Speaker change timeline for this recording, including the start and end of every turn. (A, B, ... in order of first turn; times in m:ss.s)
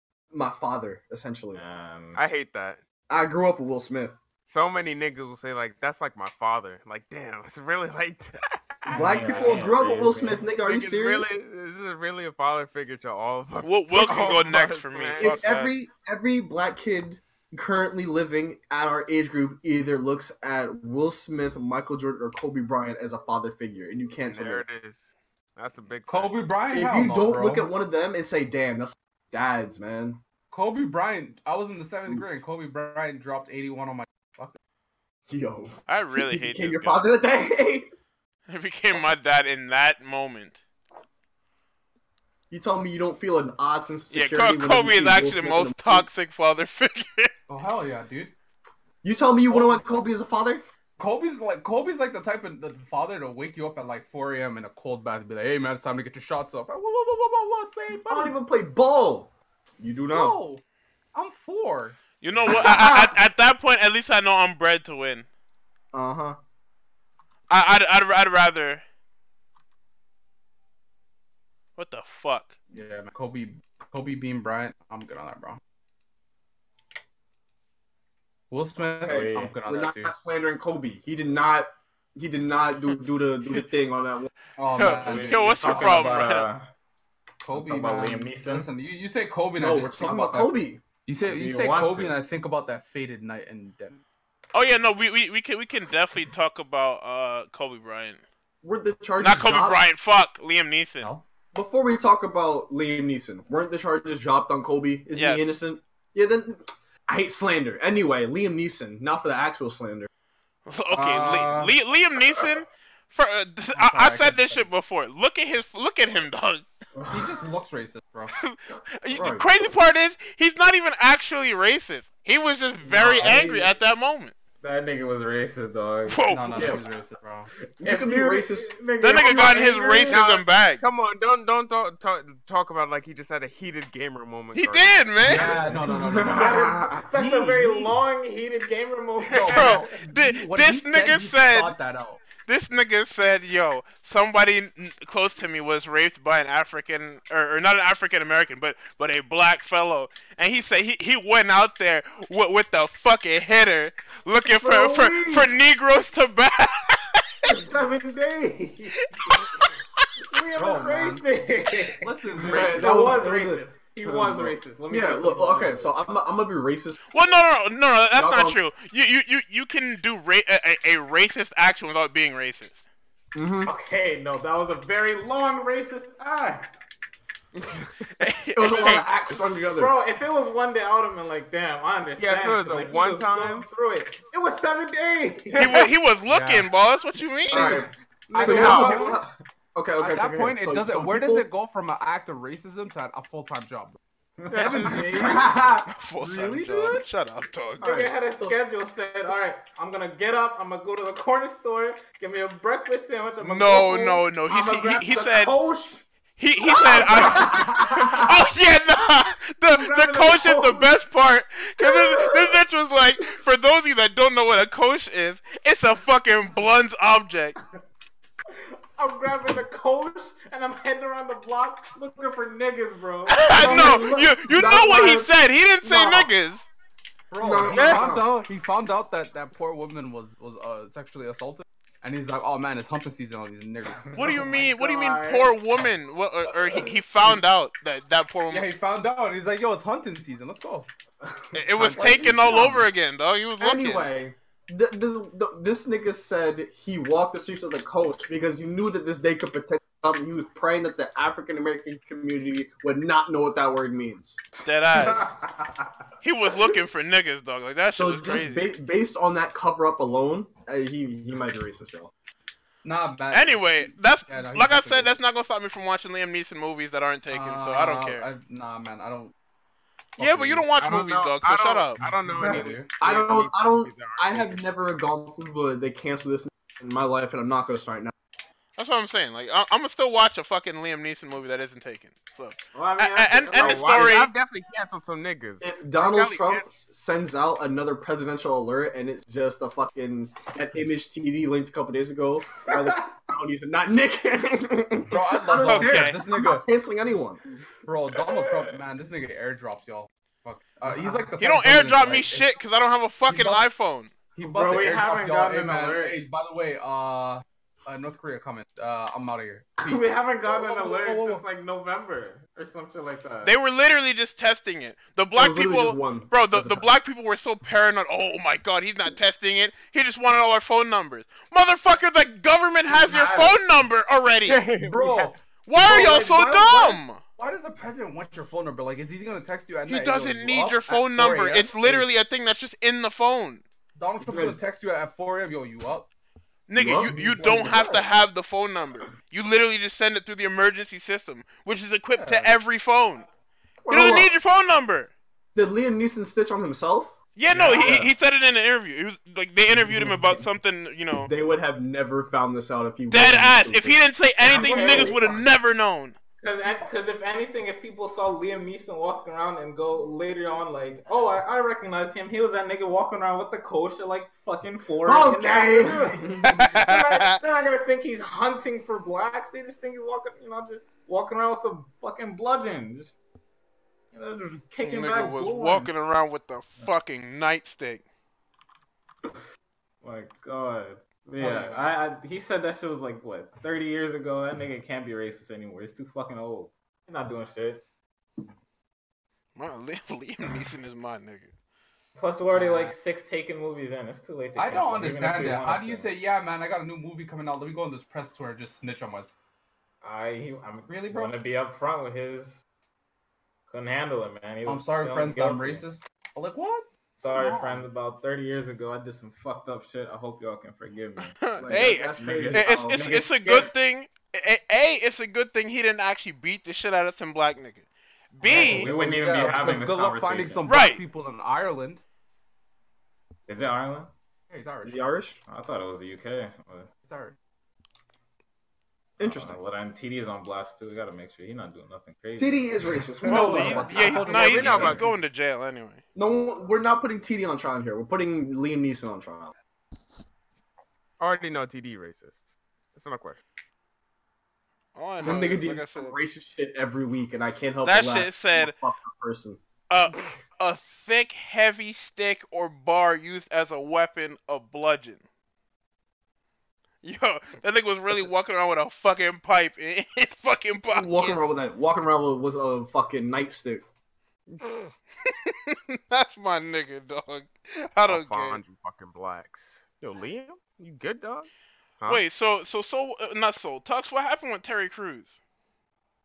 0:00.3-0:01.6 A
0:01.5-0:02.2 B
0:02.2-0:02.8 C
0:03.1-0:04.2 A
0:04.5-0:15.7 C
0:08.9-0:10.5 B
0:08.9-0:11.3 A
0:09.3-0:09.6 D
0:13.6-0:15.7 E
0:15.2-0:24.6 A
0:24.3-0:26.4 C
0:26.1-0:27.7 D
0:26.7-0:30.2 A
0:30.5-0:34.6 D
0:35.3-0:37.9 A
0:35.9-0:37.0 E
0:38.5-0:40.6 E
0:42.5-0:46.1 A
0:44.1-0:47.3 E
0:47.5-0:48.3 D
0:49.0-0:50.6 A
0:49.5-0:49.9 D
0:51.0-0:58.3 D
0:58.0-1:00.4 A
1:00.1-1:00.6 D
1:01.1-1:02.0 D
1:02.2-1:05.3 E
1:02.5-1:03.2 A
1:05.9-1:06.4 A
1:07.5-1:08.8 E
1:11.8-1:12.6 E
1:12.7-1:15.6 D
1:18.5-1:20.1 D
1:19.0-1:24.3 A
1:19.0-1:19.6 B
1:24.6-1:26.0 D
1:24.8-1:26.5 E
1:24.8-1:26.7 B
1:27.4-1:34.0 D
1:27.5-1:28.7 B
1:29.6-1:30.8 A
1:31.2-1:32.2 B
1:34.5-1:38.2 E
1:38.6-1:39.8 A
1:39.2-1:41.1 E
1:41.5-1:50.1 A
1:45.2-1:45.6 E
1:50.7-1:56.6 E
1:50.9-1:51.8 D
1:53.7-1:54.7 D
1:57.0-1:57.3 B
1:57.1-1:58.3 D
1:58.3-2:04.4 E
1:59.1-1:59.5 A
2:02.9-2:03.7 B
2:03.0-2:03.6 D
2:04.6-2:06.8 B
2:06.1-2:06.8 E
2:06.3-2:07.5 D
2:06.6-2:06.8 A
2:07.8-2:10.2 B
2:07.8-2:08.7 A
2:09.0-2:10.8 E
2:10.1-2:15.1 C
2:14.5-2:15.6 E
2:15.2-2:18.0 D
2:15.7-2:16.9 A
2:16.2-2:19.9 B
2:19.2-2:19.7 C
2:19.3-2:22.2 D
2:19.5-2:21.8 E
2:22.5-2:37.2 E
2:34.4-2:35.5 B
2:37.4-2:39.7 B
2:39.2-2:39.6 E
2:40.3-2:46.0 B
2:40.6-2:41.2 D
2:42.0-2:43.2 D
2:42.4-2:47.0 A
2:47.1-2:52.8 E
2:48.2-2:48.6 A
2:53.4-2:53.7 A
2:53.6-2:56.7 B
2:57.7-2:58.1 C
2:58.2-2:59.1 E
2:58.6-2:59.9 A
2:59.8-3:05.9 B
3:02.2-3:03.7 C
3:05.5-3:07.8 E
3:06.3-3:06.7 D
3:07.5-3:11.5 A
3:07.5-3:09.2 B
3:08.4-3:09.2 D
3:08.5-3:08.9 E
3:10.0-3:14.0 D
3:14.4-3:15.8 B
3:14.5-3:15.5 C
3:14.5-3:15.6 D
3:15.3-3:15.8 A
3:15.9-3:17.9 E
3:16.2-3:17.0 D
3:17.8-3:18.6 A
3:17.8-3:26.1 B
3:23.4-3:25.5 E
3:26.4-3:37.6 E
3:26.7-3:28.3 B
3:27.0-3:27.5 A
3:29.8-3:30.9 B
3:31.8-3:32.6 B
3:38.5-3:44.0 B
3:43.3-3:46.7 E
3:43.5-3:45.3 A
3:45.8-3:46.3 A
3:47.3-3:54.2 D
3:47.4-3:48.3 A
3:54.0-3:55.6 B
3:54.2-3:58.7 E
3:58.5-4:00.9 D
4:01.2-4:02.7 B
4:01.6-4:04.1 E
4:01.8-4:02.8 D
4:02.0-4:02.7 A
4:03.6-4:14.4 A
4:14.6-4:15.3 E
4:14.9-4:15.9 B
4:16.2-4:18.7 E
4:17.9-4:22.1 A
4:22.8-4:25.1 D
4:23.3-4:28.3 E
4:27.3-4:29.3 D
4:30.2-4:30.6 D
4:30.2-4:32.0 E
4:30.8-4:34.6 C
4:32.0-4:32.9 D
4:32.5-4:38.1 A
4:38.8-4:44.3 E
4:42.7-4:44.2 B
4:43.5-4:46.7 C
4:45.6-4:57.4 A
4:52.7-4:53.0 B
4:55.1-4:56.6 D
4:55.6-4:56.2 E
4:57.9-5:02.5 D
5:01.4-5:04.1 E
5:03.3-5:03.6 D
5:04.3-5:11.4 D
5:04.4-5:06.2 B
5:09.8-5:13.5 B
5:13.4-5:24.6 E
5:15.4-5:16.9 A
5:22.9-5:23.6 B
5:24.4-5:25.4 C
5:24.8-5:32.1 D
5:25.7-5:27.2 E
5:29.9-5:33.6 E
5:34.0-5:36.1 D
5:34.2-5:34.6 A
5:36.7-5:43.3 E
5:36.8-5:38.0 A
5:37.4-5:37.7 D
5:42.2-5:42.6 D
5:43.8-5:44.3 A
5:43.9-5:45.1 E
5:45.6-5:48.1 A
5:47.4-5:51.3 E
5:47.6-5:48.0 B
5:49.7-5:50.4 A
5:51.2-5:55.4 A
5:53.1-5:56.2 E
5:54.4-5:55.4 B
5:56.4-6:13.2 B
6:05.0-6:06.6 A
6:06.6-6:07.4 E
6:14.1-6:15.9 B
6:14.8-6:18.0 E
6:20.0-6:27.9 B
6:21.4-6:21.8 D
6:29.6-6:31.5 E
6:32.2-6:36.1 B
6:32.5-6:33.0 D
6:34.6-6:39.4 D
6:40.0-6:42.6 B
6:40.9-6:41.3 D
6:43.7-6:45.8 B
6:44.6-6:47.8 D
6:47.2-6:53.7 B
6:51.4-6:58.9 E
6:51.6-6:53.2 A
6:58.4-7:00.7 B
6:58.4-7:02.0 D
7:00.7-7:01.0 E
7:03.5-7:04.1 B
7:04.5-7:05.0 D
7:04.8-7:05.4 A
7:05.5-7:06.9 B
7:07.0-7:07.4 D
7:09.2-7:09.6 A
7:09.2-7:14.2 B
7:12.4-7:15.0 A
7:13.3-7:16.0 E
7:13.4-7:15.0 D
7:14.4-7:15.0 C
7:16.2-7:19.5 A
7:21.2-7:23.4 C
7:25.0-7:26.2 E
7:25.2-7:29.6 A
7:27.8-7:28.8 E
7:29.9-7:35.2 E
7:37.0-7:41.4 E
7:40.9-7:43.8 A
7:44.5-7:44.8 C
7:45.3-7:48.6 E
7:48.1-7:51.5 C
7:52.1-7:55.4 E